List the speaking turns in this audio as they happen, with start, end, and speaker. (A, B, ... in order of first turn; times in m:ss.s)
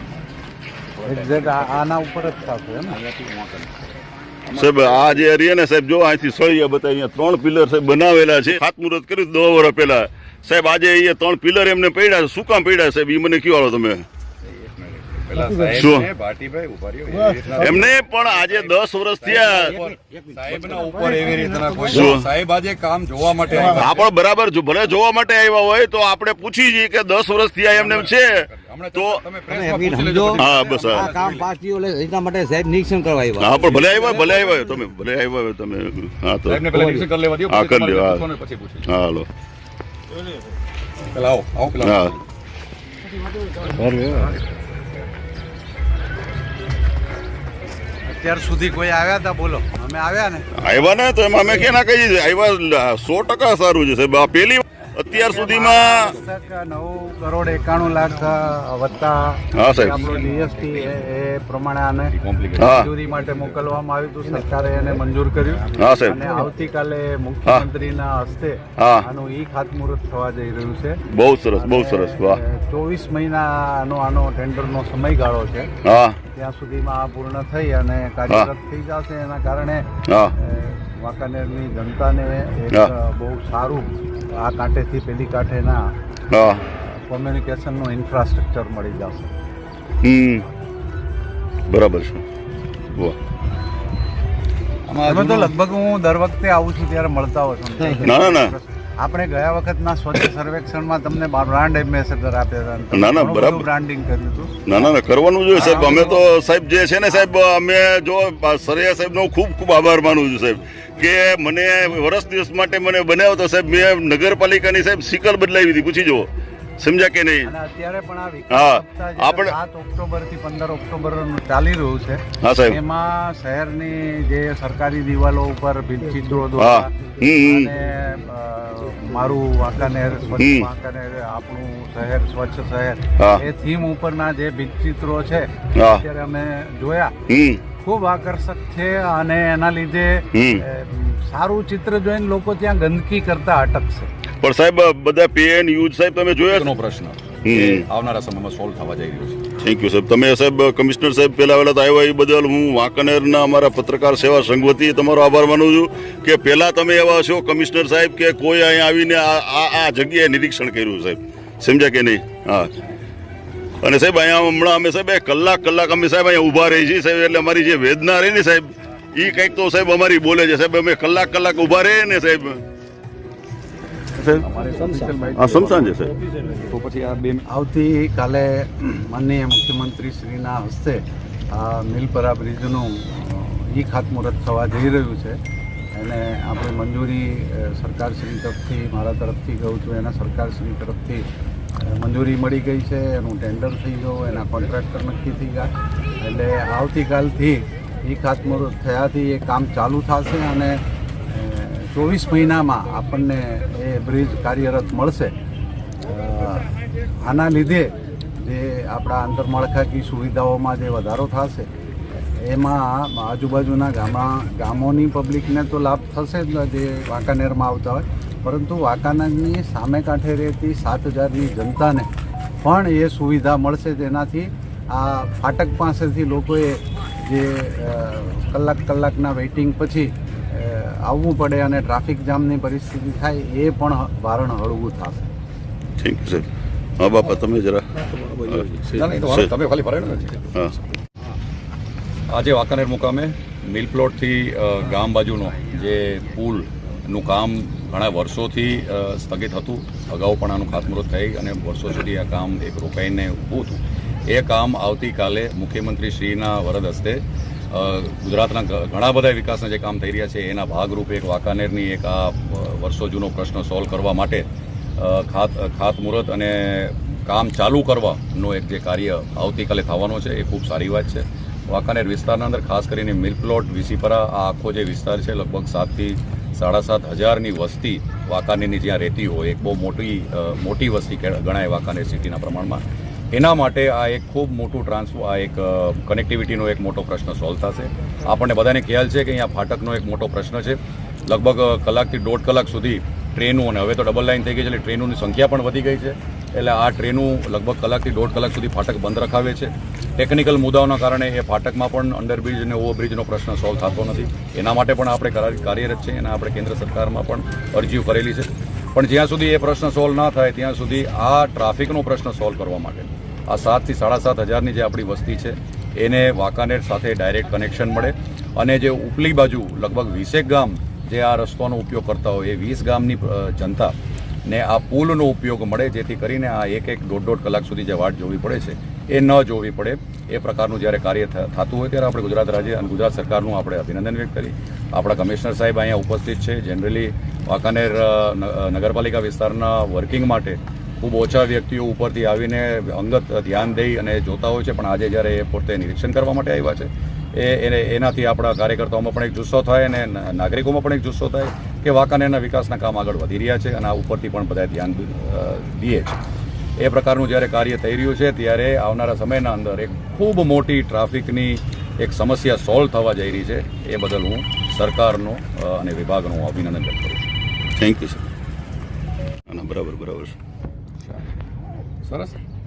0:00.9-0:01.9 A
0:01.0-0:03.0 B
0:02.9-0:05.3 A
0:04.5-0:14.0 C
0:14.4-0:24.0 A
0:15.8-0:16.1 C
0:17.6-0:19.7 C
0:19.4-0:20.9 D
0:21.9-0:22.3 C
0:23.7-0:29.2 C
0:27.7-0:31.5 A
0:29.5-0:34.4 D
0:30.4-0:31.1 C
0:33.4-0:38.2 C
0:36.5-0:38.9 A
0:38.9-0:39.3 C
0:41.1-0:42.0 A
0:41.8-0:42.2 C
0:44.0-0:44.4 A
0:48.1-0:50.5 B
0:50.5-0:56.2 C
0:55.1-1:11.0 B
0:59.5-1:00.1 C
1:00.1-1:00.8 A
1:02.1-1:02.9 A
1:02.6-1:02.9 C
1:05.8-1:06.2 C
1:08.8-1:09.0 C
1:11.1-1:12.4 C
1:11.6-1:15.7 B
1:15.8-1:16.2 C
1:16.3-1:25.8 B
1:20.1-1:20.3 C
1:26.3-1:26.6 C
1:26.8-1:29.3 B
1:30.0-1:30.4 C
1:31.7-1:32.2 C
1:34.9-1:35.6 A
1:35.0-1:44.6 B
1:38.0-1:38.5 C
1:42.9-1:43.6 C
1:44.6-1:56.3 C
1:45.5-1:46.3 B
1:56.8-1:57.5 C
1:57.4-2:17.1 B
1:58.5-1:59.5 C
2:02.4-2:02.8 C
2:06.6-2:07.7 C
2:10.4-2:10.7 C
2:13.2-2:13.4 C
2:15.8-2:16.0 C
2:17.3-2:17.6 C
2:17.8-2:24.1 B
2:20.3-2:20.6 C
2:24.4-2:26.7 C
2:26.5-2:29.4 A
2:27.4-2:27.8 C
2:29.6-2:42.7 C
2:43.8-2:52.6 C
2:54.2-2:54.4 C
2:54.3-2:57.4 A
2:55.3-2:56.1 C
2:57.5-3:05.4 B
3:05.9-3:11.2 B
3:11.8-3:25.3 B
3:26.0-3:26.7 B
3:27.2-3:31.7 B
3:32.3-3:42.1 B
3:42.6-3:55.3 B
3:56.0-3:56.5 C
3:57.0-3:59.5 C
3:58.7-4:00.5 A
4:02.3-4:24.4 A
4:25.0-4:42.8 A
4:43.3-5:23.9 A
5:24.4-5:56.2 A
5:56.8-6:07.3 A
6:07.8-6:08.3 C
6:09.5-6:10.4 C
6:12.0-6:12.4 A